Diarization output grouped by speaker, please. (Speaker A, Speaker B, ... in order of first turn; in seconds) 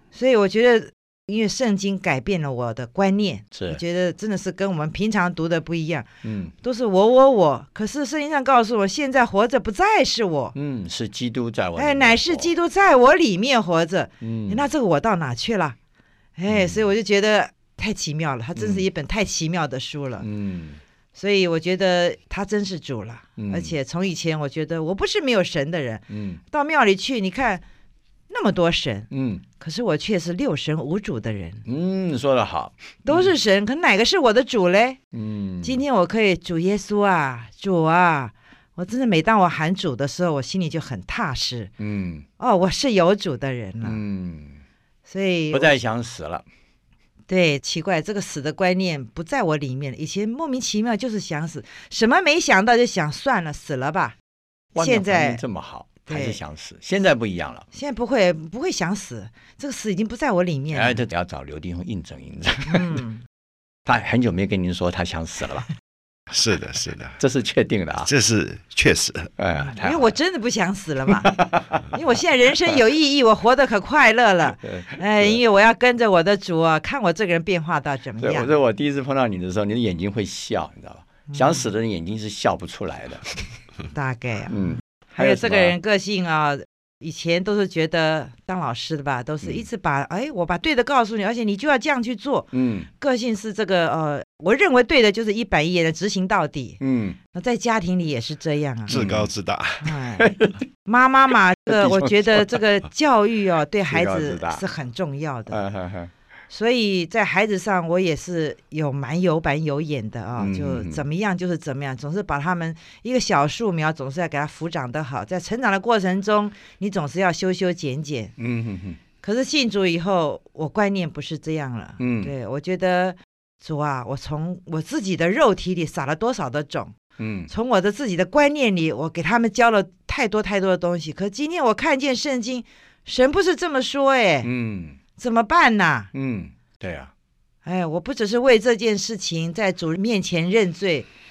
Speaker A: 0.1-6.1, 6.6-10.5, 11.8-15.8, 16.4-20.3, 21.1-27.6, 28.3-31.6, 33.1-35.0, 35.6-41.7, 42.4-44.0, 45.1-45.7, 47.3-54.2, 54.8-55.4, 56.1-56.4, 57.7-61.0, 62.7-63.2, 69.6-71.4, 71.9-78.5, 81.3-81.7, 83.9-84.6, 85.2-96.8, 97.3-99.0, 99.8-100.3, 100.8-105.6, 106.5-118.3, 119.2-127.0, 127.5-134.5, 135.2-136.1, 137.7-141.1
Speaker B: 3.5-3.8, 6.2-6.5, 10.5-12.5, 14.2-14.7, 16.5-16.9, 18.6-18.9, 20.2-20.8, 23.4-23.8, 26.1-26.4, 29.1-29.4, 31.7-33.3, 35.1-35.8, 41.8-42.3, 43.8-44.6, 45.5-46.5, 54.7-57.7, 60.7-63.0, 63.9-65.7, 67.2-68.1, 69.4-70.2, 71.2-71.9, 74.6-75.4, 78.2-83.3, 84.5-85.8, 92.5-92.9, 96.8-97.2, 98.9-99.3, 100.2-100.7, 101.7-102.6, 103.9-104.6, 105.5-106.1, 110.4-111.0, 118.4-119.0, 122.0-122.3, 127.2-127.5, 134.4-135.0, 136.1-137.1
Speaker C: 66.3-67.2, 68.1-69.3, 98.9-99.9